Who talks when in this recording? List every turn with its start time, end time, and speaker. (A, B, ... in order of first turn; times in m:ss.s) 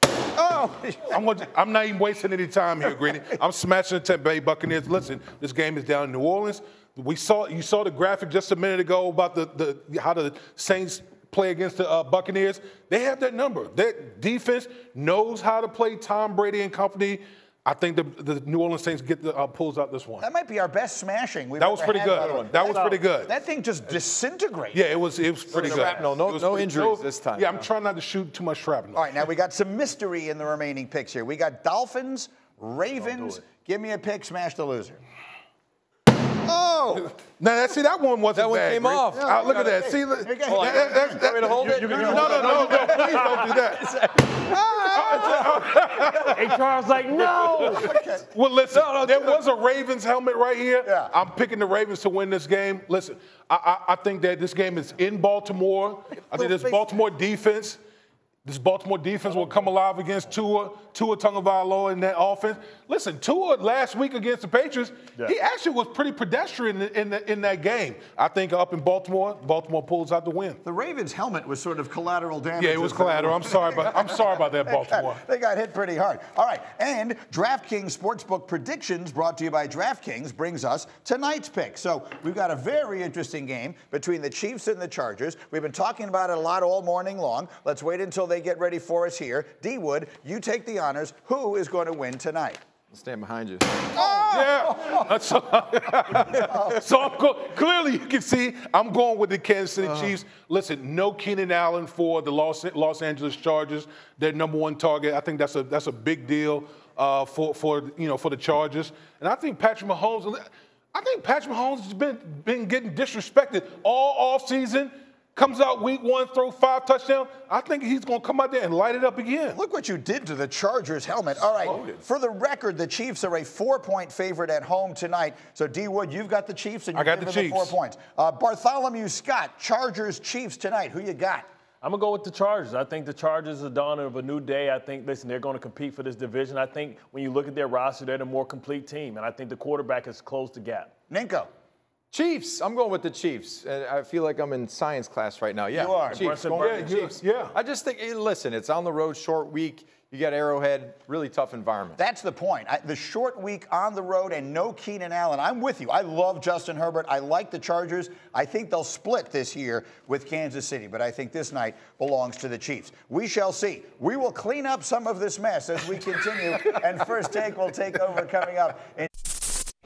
0:00.4-0:01.1 A
0:00.9-0:20.3 B
0:20.2-0:24.8 A
0:21.6-0:23.3 B
0:22.5-0:23.0 C
0:24.7-0:29.3 B
0:25.5-0:27.7 D
0:25.5-0:26.1 A
0:28.9-0:35.0 A
0:33.0-0:33.4 C
0:36.4-0:37.2 A
0:37.2-0:46.6 B
0:38.3-0:39.3 D
0:39.1-0:43.3 A
0:40.4-0:43.3 D
0:41.7-0:43.5 C
0:44.0-0:45.5 A
0:44.6-0:45.5 D
0:46.1-0:47.9 C
0:47.4-0:57.8 B
0:47.6-0:48.3 A
0:48.8-0:49.2 D
0:50.8-0:51.1 A
0:56.3-0:56.9 A
0:58.4-1:10.6 B
1:10.6-1:32.6 A
1:12.6-1:15.2 B
1:32.9-1:33.9 D
1:33.9-1:35.1 A
1:34.0-1:59.6 B
1:36.2-1:36.8 A
1:59.5-2:11.4 A
2:06.9-2:07.8 B
2:11.8-2:20.9 C
2:21.1-2:21.5 A
2:22.1-2:32.0 D
2:25.7-2:26.4 A
2:25.9-2:27.2 C
2:26.6-2:27.5 B
2:32.0-2:49.1 A